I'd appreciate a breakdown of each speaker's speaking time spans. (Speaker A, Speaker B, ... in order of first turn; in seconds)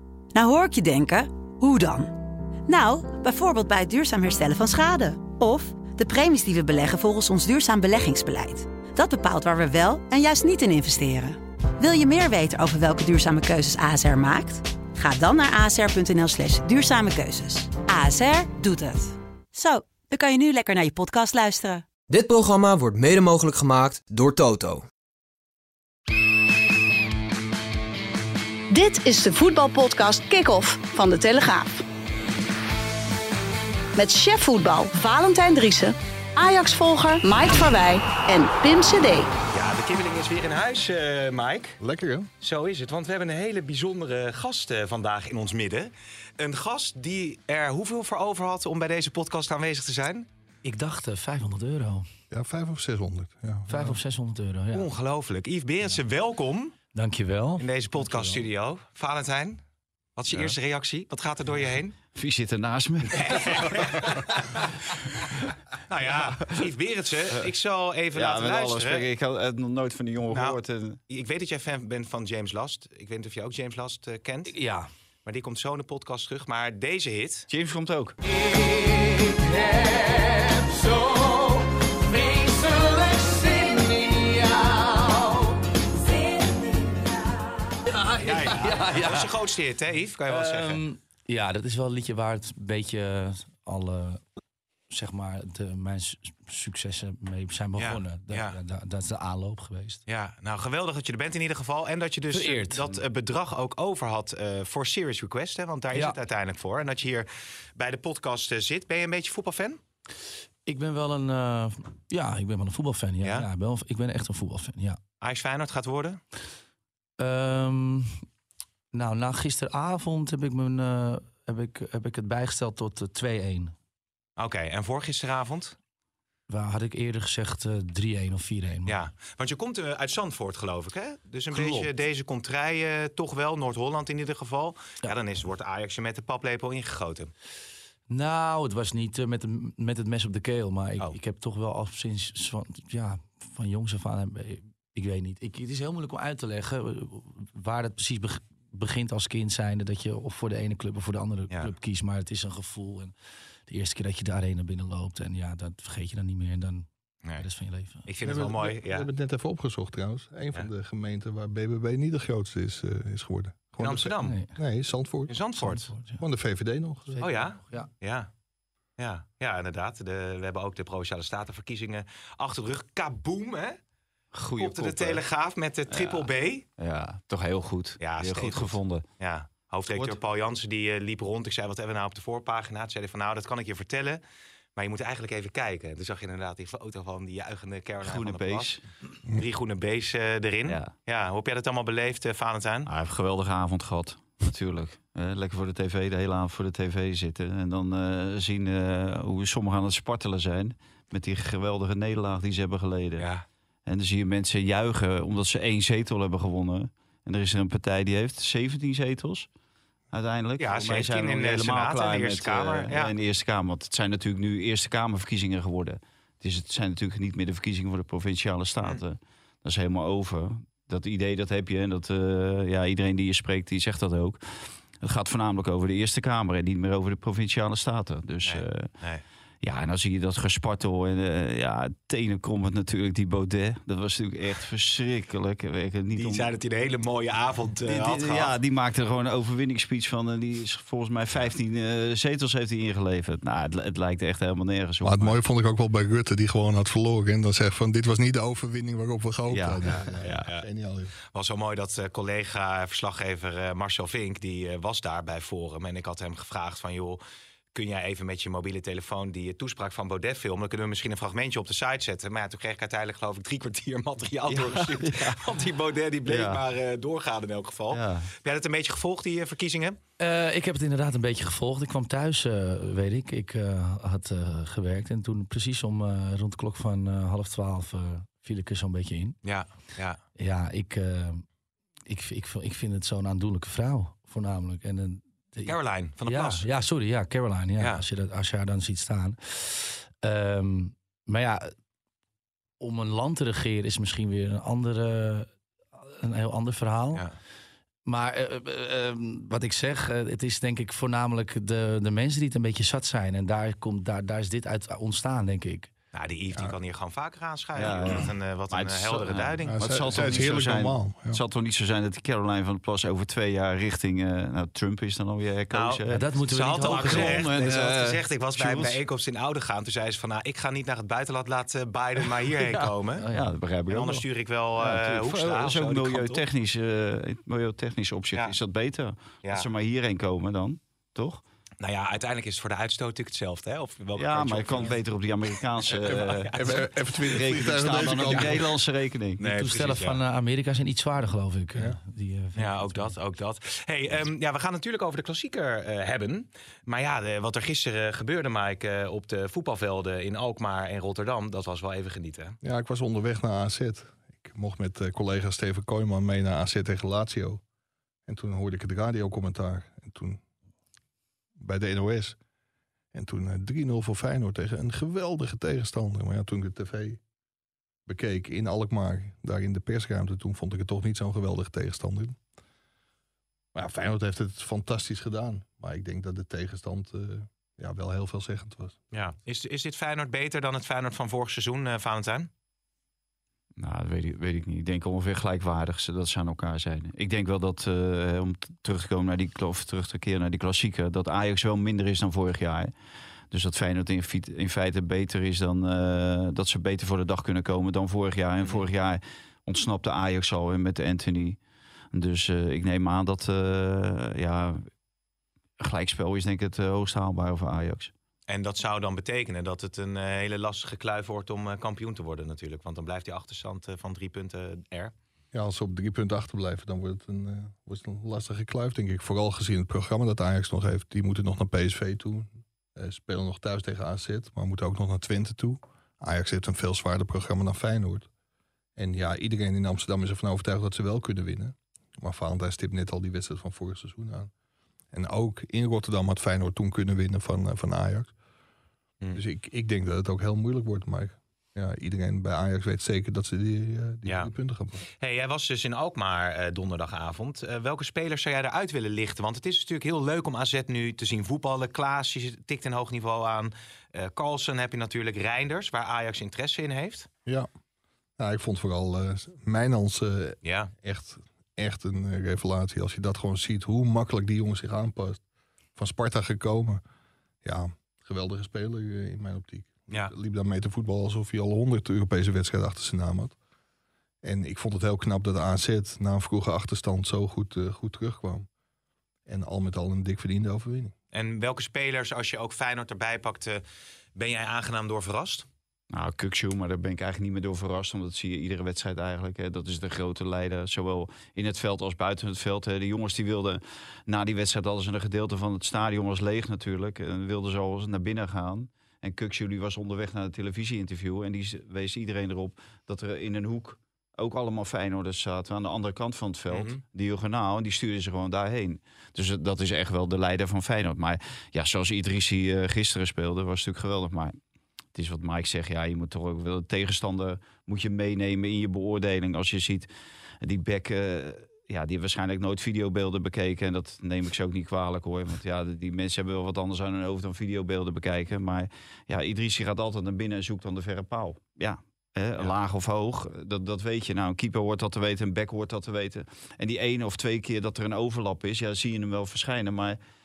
Speaker A: 0.3-2.1, 2.7-21.8
Speaker B: 22.1-24.9
Speaker C: 28.7-31.8, 34.0-39.3
Speaker D: 39.5-41.8, 42.4-50.3, 54.7-56.7, 57.6-59.6, 60.2-62.0, 63.1-64.8, 65.9-69.0, 70.3-74.5, 75.2-77.5, 88.2-90.8, 97.8-98.6, 100.1-109.8, 113.2-113.5, 115.2-116.2, 124.4-125.8, 128.8-137.3, 158.1-159.1, 163.8-164.4, 165.3-165.9, 167.2-168.3, 169.0-173.8, 174.6-176.7, 178.0-184.2, 184.8-188.7, 189.2-192.9, 203.2-203.4, 210.6-213.1, 228.4-229.2, 236.1-238.5, 250.2-250.6, 251.3-257.2, 257.7-270.0, 279.4-280.2, 285.7-286.6, 306.1-310.5, 315.7-323.2, 323.9-326.4, 329.4-329.7, 331.8-335.0, 335.8-336.8, 337.9-338.6, 339.4-340.2, 342.6-352.6, 379.1-382.5, 398.6-398.9, 408.5-415.1, 444.2-444.5, 445.2-457.3, 460.6-460.9, 481.3-483.8, 484.4-485.6, 506.7-507.0
Speaker E: 41.8-42.3, 52.3-54.0, 158.2-165.4, 166.2-167.2, 245.0-251.1, 309.6-311.4, 336.5-338.7, 352.6-357.6, 358.2-360.4, 361.6-362.4, 363.1-367.2, 368.1-372.4, 373.7-379.0, 415.5-428.3, 428.9-434.5, 435.1-438.3, 439.3-445.0, 458.4-465.4, 465.9-467.0, 467.6-473.6, 474.4-478.7, 479.4-481.1
Speaker F: 50.6-52.1, 53.7-54.9, 56.9-58.4, 74.5-74.9, 80.6-81.1, 82.1-84.9, 87.8-89.3, 90.3-94.2, 94.9-100.0, 102.3-102.9, 110.7-115.0, 117.2-118.1, 118.9-123.7, 126.5-129.0, 131.5-131.9, 138.1-153.1, 153.7-156.9, 157.4-158.0, 164.2-164.6, 165.6-166.2, 167.1-167.9, 270.2-279.4, 280.4-281.4, 282.1-291.7, 292.8-297.2, 298.1-305.9, 316.1-317.4, 323.2-323.5, 339.4-343.1
Speaker G: 62.1-64.2, 68.1-71.0, 77.5-78.2, 174.3-175.2, 175.9-179.0, 188.0-188.8, 190.7-190.9, 192.8-203.3, 203.8-209.5, 210.1-224.4, 225.0-228.9, 229.6-236.5, 237.8-245.3, 249.5-250.5, 264.5-265.4, 266.2-266.6, 267.9-268.3, 307.7-316.2, 316.8-319.0, 322.6-324.2, 324.8-331.4, 334.1-339.4, 383.8-392.9, 393.5-401.6, 402.1-404.9, 405.8-408.1, 486.1-514.6, 515.1-520.1, 520.6-540.2